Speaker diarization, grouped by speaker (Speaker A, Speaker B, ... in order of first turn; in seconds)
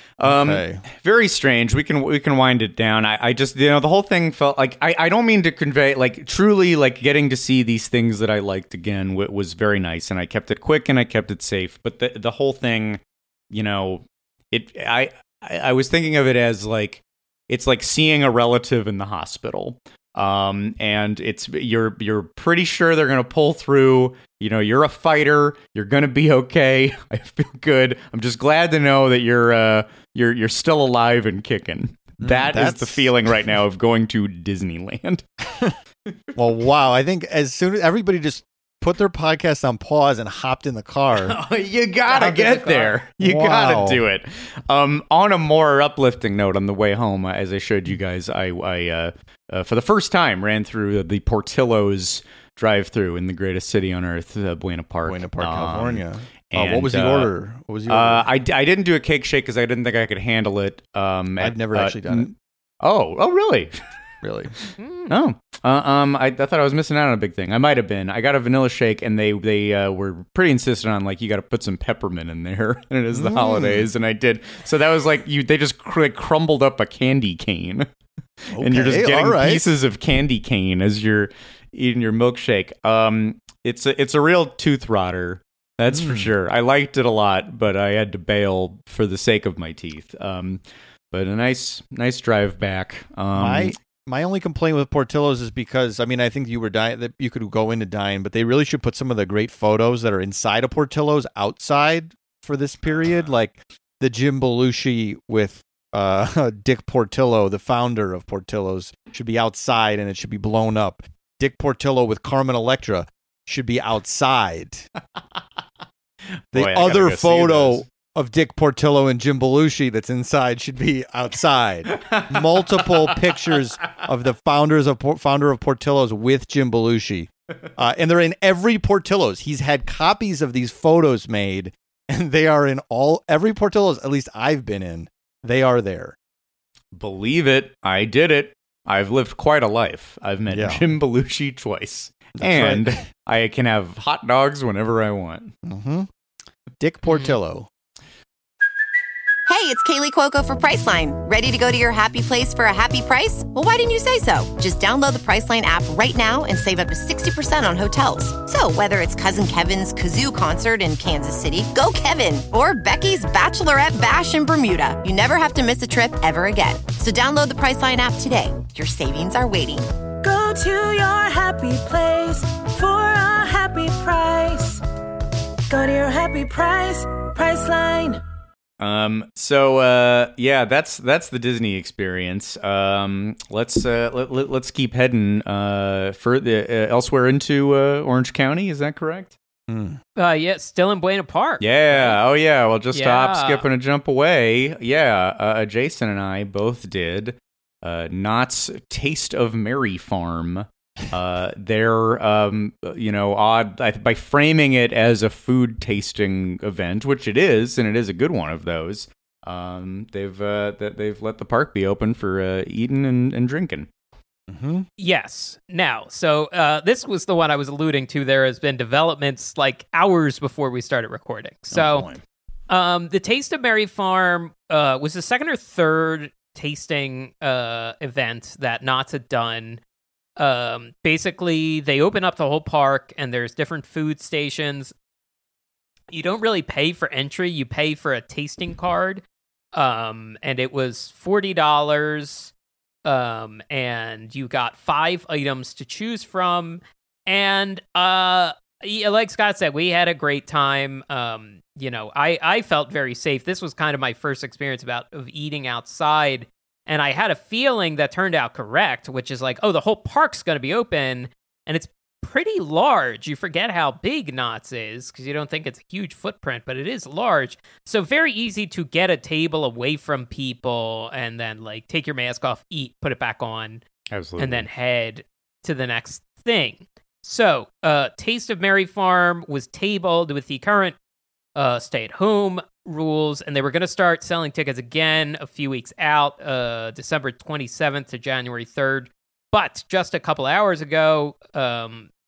Speaker A: 0.2-13.0, 13.5-35.2, 41.3-57.3, 57.9-63.8, 65.1-77.9, 78.5-93.7, 116.5-117.8, 121.9-123.2, 136.9-145.5, 178.8-189.3, 191.6-213.9, 274.1-274.6
Speaker B: 0.2-0.8, 32.2-33.5, 36.4-41.4, 43.2-44.0, 55.0-58.3, 61.4-62.3, 64.2-64.5, 73.1-73.9, 78.5-79.7, 85.9-86.3, 93.3-114.9, 116.5-136.2, 140.5-140.8, 142.4-143.0, 145.6-146.1, 146.8-147.7, 189.7-190.0, 214.5-214.9, 221.7-222.1
Speaker C: 42.1-43.0, 64.8-65.1, 190.2-192.2, 192.9-193.6, 215.0-222.1, 222.7-229.8, 230.4-234.9, 236.1-239.2, 239.7-242.5, 243.0-273.8, 274.4-280.9, 281.6-292.1
Speaker D: 149.5-169.9
Speaker E: 170.2-174.8, 175.7-178.2